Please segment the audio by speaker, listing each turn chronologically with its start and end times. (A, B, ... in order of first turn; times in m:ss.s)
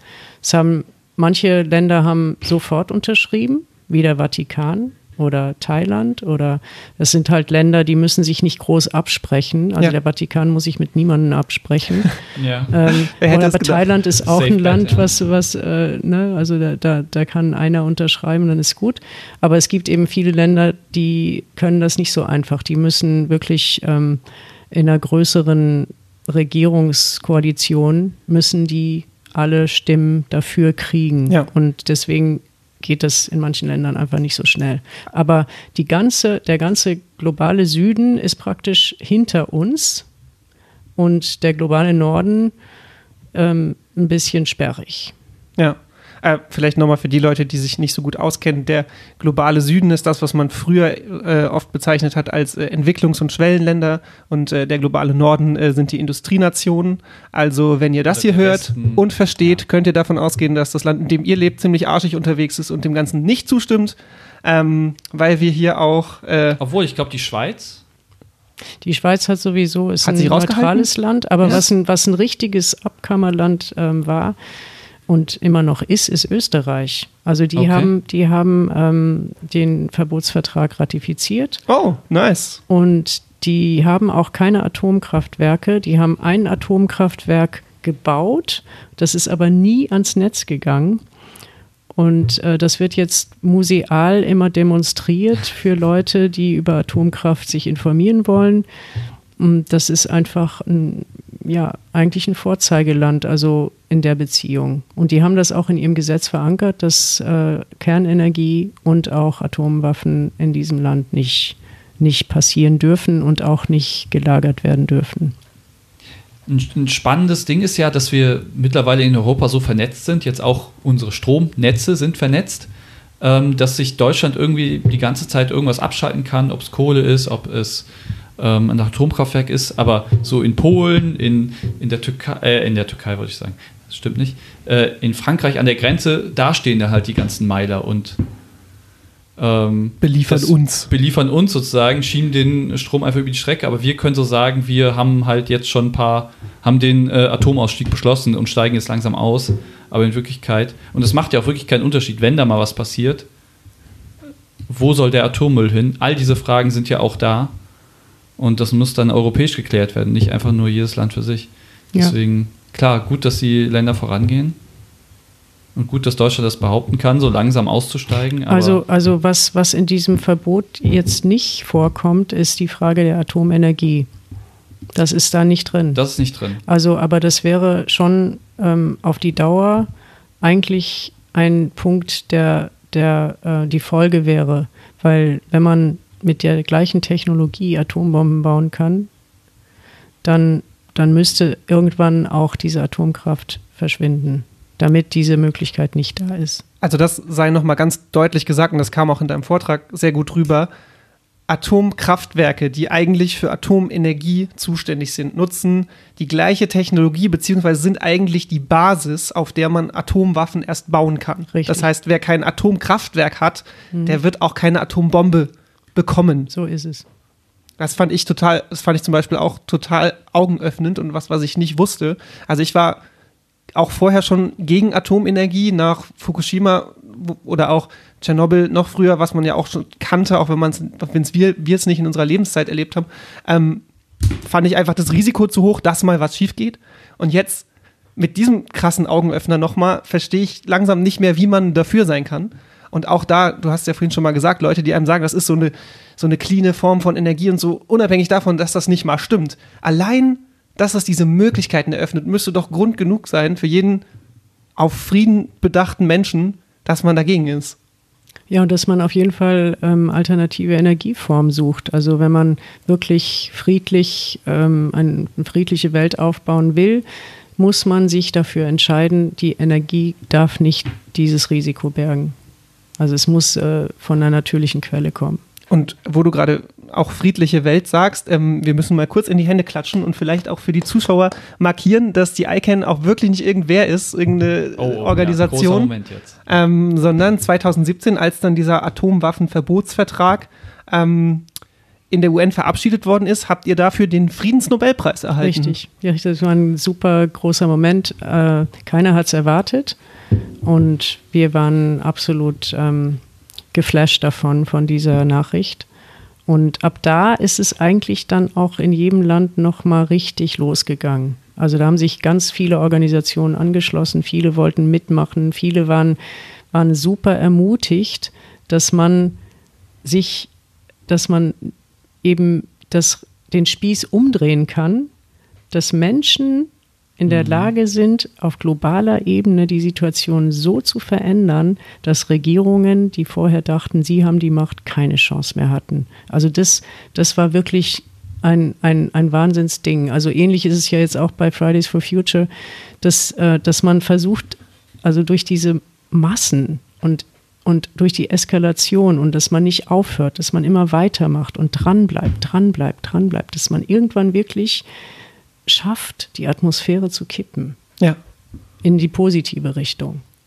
0:00.4-0:12.2 A
0:12.4-0:12.9 B
0:12.7-0:24.2 A
0:12.9-0:13.8 C
0:14.2-0:15.1 B
0:24.7-0:40.1 A
0:41.0-0:42.5 A
0:43.3-0:45.1 A
0:45.6-1:06.6 C
0:58.1-0:59.6 B
1:06.6-1:07.8 B
1:08.8-1:14.4 A
1:10.0-1:10.9 C
1:15.1-1:21.6 A
1:17.6-1:17.9 B
1:21.7-1:22.6 C
1:22.7-1:31.0 A
1:32.0-1:38.7 A
1:39.4-1:55.3 A
1:56.5-2:02.7 B
2:03.2-2:18.2 B
2:19.4-2:33.3 B
2:20.0-2:20.9 C
2:34.7-2:37.5 B
2:38.4-2:44.6 B
2:45.8-2:48.8 B
2:48.5-2:54.1 A
2:55.0-2:56.0 A
2:56.0-2:56.6 B
2:56.7-2:59.9 A
3:00.4-3:09.1 A
3:10.2-3:16.6 A
3:16.8-3:20.7 C
3:21.5-3:36.5 C
3:31.5-3:31.9 A
3:33.9-3:34.2 A
3:36.5-3:37.1 A
3:37.8-3:43.0 C
3:43.8-3:53.8 C
3:54.4-4:14.0 C
4:14.8-4:17.8 C
4:18.5-4:27.0 A
4:27.6-4:32.4 A
4:33.0-4:35.4 A
4:35.7-4:45.9 C
4:44.8-4:46.3 B
4:46.5-4:51.5 C
4:52.1-4:55.8 C
4:55.4-5:00.0 A
5:00.6-5:03.2 A
5:03.7-5:05.9 A
5:06.5-5:16.2 A
5:16.7-5:19.4 A
5:20.0-5:20.5 A
5:21.1-5:25.1 A
5:25.7-5:42.5 A
5:27.3-5:27.7 B
5:43.0-5:54.8 A
5:55.7-5:57.8 A
5:58.8-6:00.2 A